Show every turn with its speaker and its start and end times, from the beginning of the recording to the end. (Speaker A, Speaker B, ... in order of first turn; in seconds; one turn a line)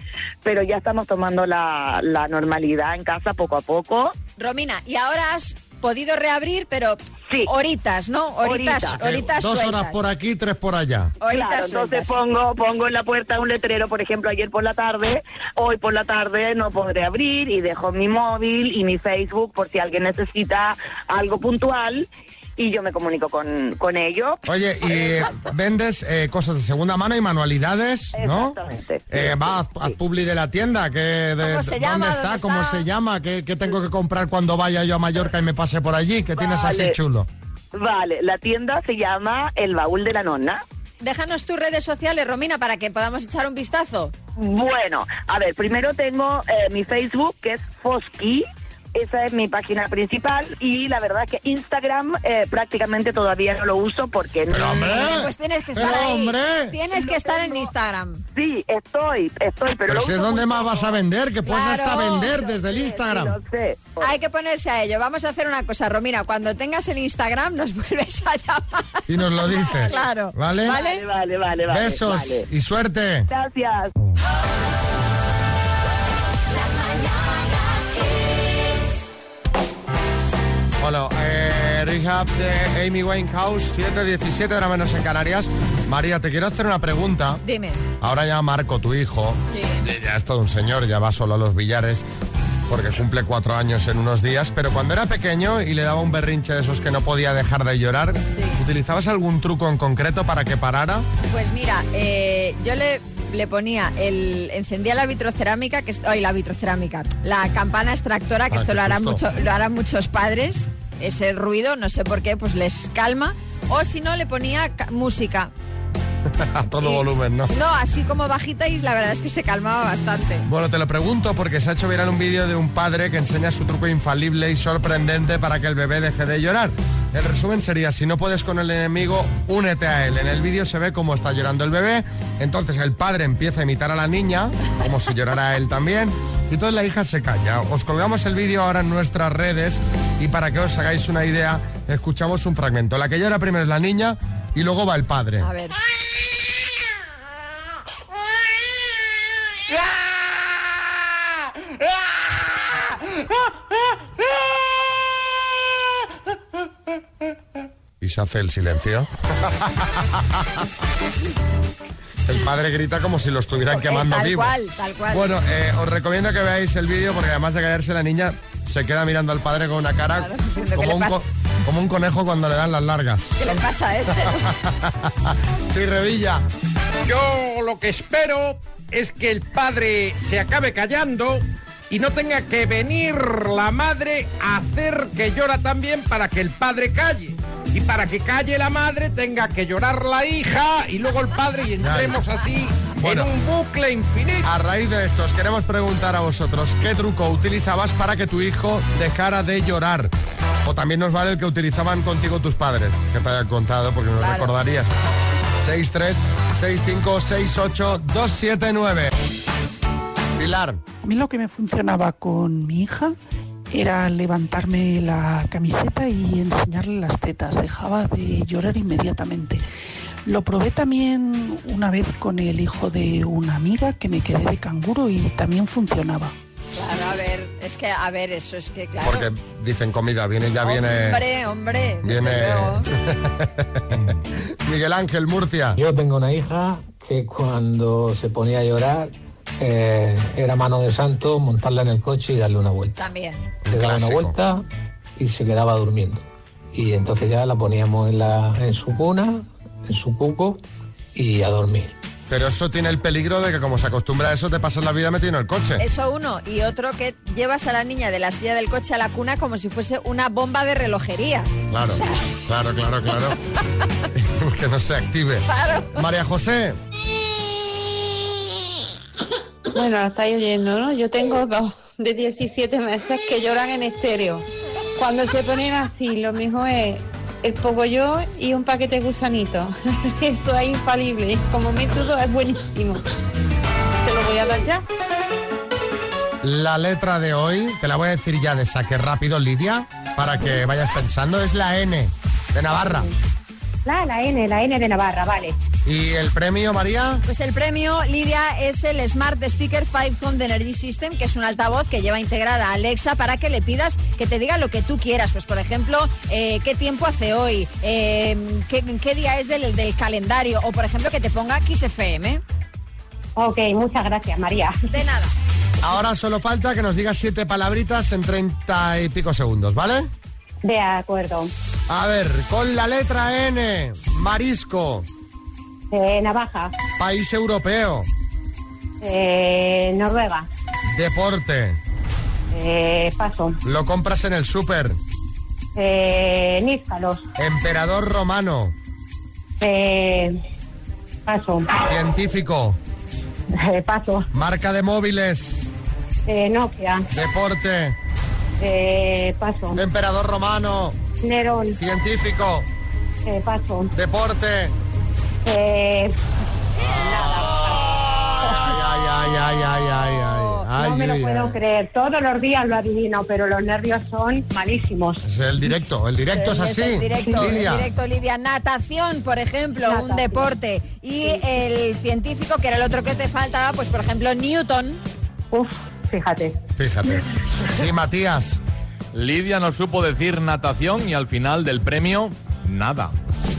Speaker A: 0.4-4.2
Speaker B: 4.4-10.1
Speaker A: 8.4-9.0
Speaker C: 8.9-11.2
Speaker B: 11.2-12.2
Speaker A: 11.3-25.4
Speaker C: 24.5-28.6
Speaker A: 28.1-30.0
Speaker C: 29.1-37.3
Speaker B: 31.4-32.9
Speaker A: 36.4-37.0
Speaker A: 37.7-40.6
Speaker B: 41.0-44.1
Speaker A: 44.4-55.1
Speaker C: 54.5-56.8
Speaker B: 54.8-58.2
Speaker A: 57.0-57.7
Speaker A: 58.4-61.0
Speaker C: 59.9-63.3
Speaker B: 61.5-62.5
Speaker A: 62.2-64.2
Speaker B: 64.0-71.0
Speaker C: 69.1-70.8
Speaker A: 69.7-70.0
Speaker A: 70.7-72.5
Speaker C: 71.7-73.3
Speaker A: 73.3-73.9
Speaker C: 80.8-87.4
Speaker B: 87.4-87.8
Speaker C: 88.0-92.0
Speaker B: 89.5-89.8
Speaker C: 92.7-101.1
Speaker B: 98.3-98.6
Speaker B: 101.3-115.5
Speaker C: 108.5-109.2
Speaker C: 116.3-117.5
Speaker B: 116.8-120.5
Speaker C: 120.5-145.5
Speaker B: 145.4-145.8
Speaker C: 158.0-160.5
Speaker C: 162.3-164.5
Speaker B: 163.7-165.3
Speaker C: 165.1-173.6
Speaker B: 170.2-171.2
Speaker B: 173.4-174.4
Speaker C: 174.1-176.4
Speaker D: 177.1-194.5
Speaker C: 191.8-192.2
Speaker C: 193.0-193.3
Speaker C: 194.4-200.1
Speaker C: 200.6-204.9
Speaker B: 204.2-204.5
Speaker C: 205.6-209.1
Speaker C: 210.4-210.8
Speaker E: 211.0-213.2
Speaker E: 213.7-219.7
Speaker E: 220.2-226.3
Speaker B: 226.8-229.3
Speaker C: 229.0-231.2
Speaker B: 230.6-232.9
Speaker C: 232.0-235.8
Speaker F: 235.8-243.0
Speaker B: 243.0-243.5
Speaker C: 243.7-244.4
Speaker F: 243.7-244.6
Speaker F: 245.2-250.6
Speaker F: 251.2-251.9
Speaker C: 252.3-255.8
Speaker B: 255.8-262.2
Speaker C: 261.7-263.4
Speaker C: 264.1-266.8
Speaker B: 265.5-266.0
Speaker G: 269.7-283.0
Speaker G: 284.0-284.8
Speaker C: 286.4-293.1
Speaker H: 293.9-295.6
Speaker C: 295.9-297.2
Speaker B: 297.3-312.4
Speaker H: 313.4-314.8
Speaker B: 314.9-315.3
Speaker C: 315.8-320.1
Speaker H: 320.6-321.5
Speaker C: 321.9-325.1
Speaker H: 325.9-326.7
Speaker C: 327.0-328.1
Speaker H: 329.0-330.5
Speaker C: 330.9-331.8
Speaker H: 332.5-333.6
Speaker C: 333.6-335.0
Speaker H: 335.8-337.2
Speaker C: 337.4-338.7
Speaker H: 339.6-340.4
Speaker H: 341.3-341.8
Speaker C: 341.8-342.8
Speaker H: 343.6-344.3
Speaker C: 344.3-345.7
Speaker H: 346.3-347.1
Speaker C: 347.1-348.0
Speaker H: 348.6-349.8
Speaker C: 349.8-351.0
Speaker H: 351.2-351.8
Speaker C: 351.8-352.7
Speaker H: 353.3-353.9
Speaker C: 353.9-354.7
Speaker H: 355.4-356.1
Speaker H: 356.9-358.7
Speaker C: 358.4-361.6
Speaker H: 360.8-365.2
Speaker C: 365.2-367.9
Speaker B: 366.3-375.0
Speaker H: 369.9-370.5
Speaker H: 375.5-376.6
Speaker C: 376.8-378.6
Speaker I: 379.1-383.1